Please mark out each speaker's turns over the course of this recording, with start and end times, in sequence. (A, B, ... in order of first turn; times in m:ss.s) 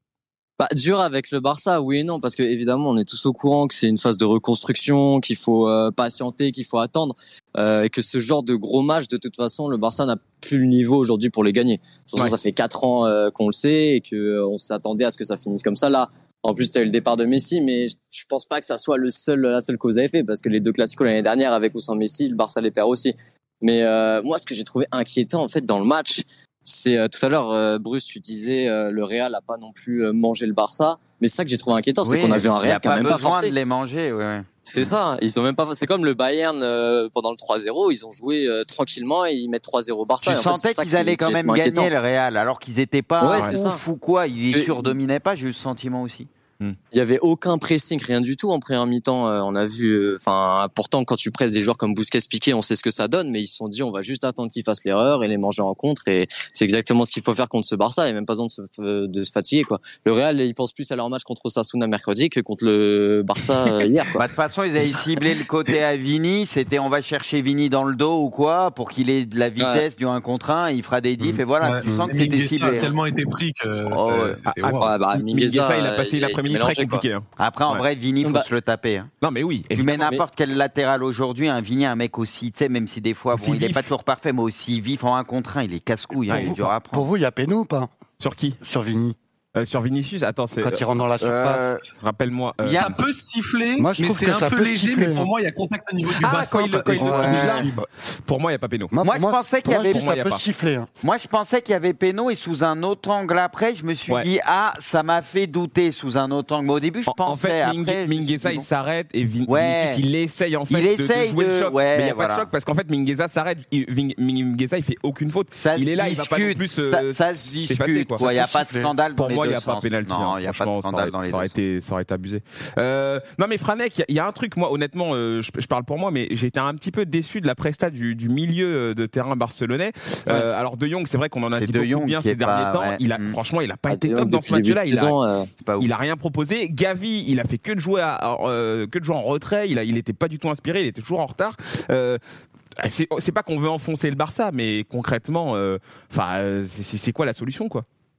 0:00.6-0:33.5 A
0:32.0-0:34.9 B
0:34.7-0:41.9 A
0:40.2-0:46.3 B
0:43.2-0:43.8 A
0:44.5-0:45.0 A
0:46.9-1:04.2 A
1:04.2-1:12.9 B
1:09.6-1:09.8 A
1:11.2-1:12.2 C
1:11.6-1:14.9 D
1:13.9-1:14.4 B
1:14.4-1:17.9 E
1:14.8-1:17.1 A
1:17.4-1:19.1 B
1:18.2-1:18.5 A
1:19.2-1:20.2 E
1:19.7-1:27.1 B
1:23.3-1:23.9 E
1:26.3-1:26.7 E
1:26.3-1:27.9 C
1:28.2-1:28.6 E
1:28.6-1:29.2 C
1:29.6-1:30.9 E
1:30.6-1:31.7 C
1:31.2-1:31.8 B
1:32.0-1:33.0 E
1:32.6-1:32.9 B
1:32.7-1:37.8 D
1:33.8-1:35.3 C
1:36.2-1:38.9 E
1:36.9-1:37.9 C
1:37.2-1:37.6 B
1:38.9-1:40.9 C
1:39.0-1:40.1 B
1:39.8-1:40.4 E
1:41.0-1:48.7 B
1:47.1-1:58.3 E
1:49.5-1:50.0 B
1:50.7-1:52.5 B
1:55.6-2:01.5 B
1:58.2-1:58.9 C
1:59.2-2:15.2 E
2:11.6-2:13.4 B
2:13.9-2:15.5 A
2:15.6-2:15.9 B
2:15.8-2:22.2 E
2:22.8-2:27.8 E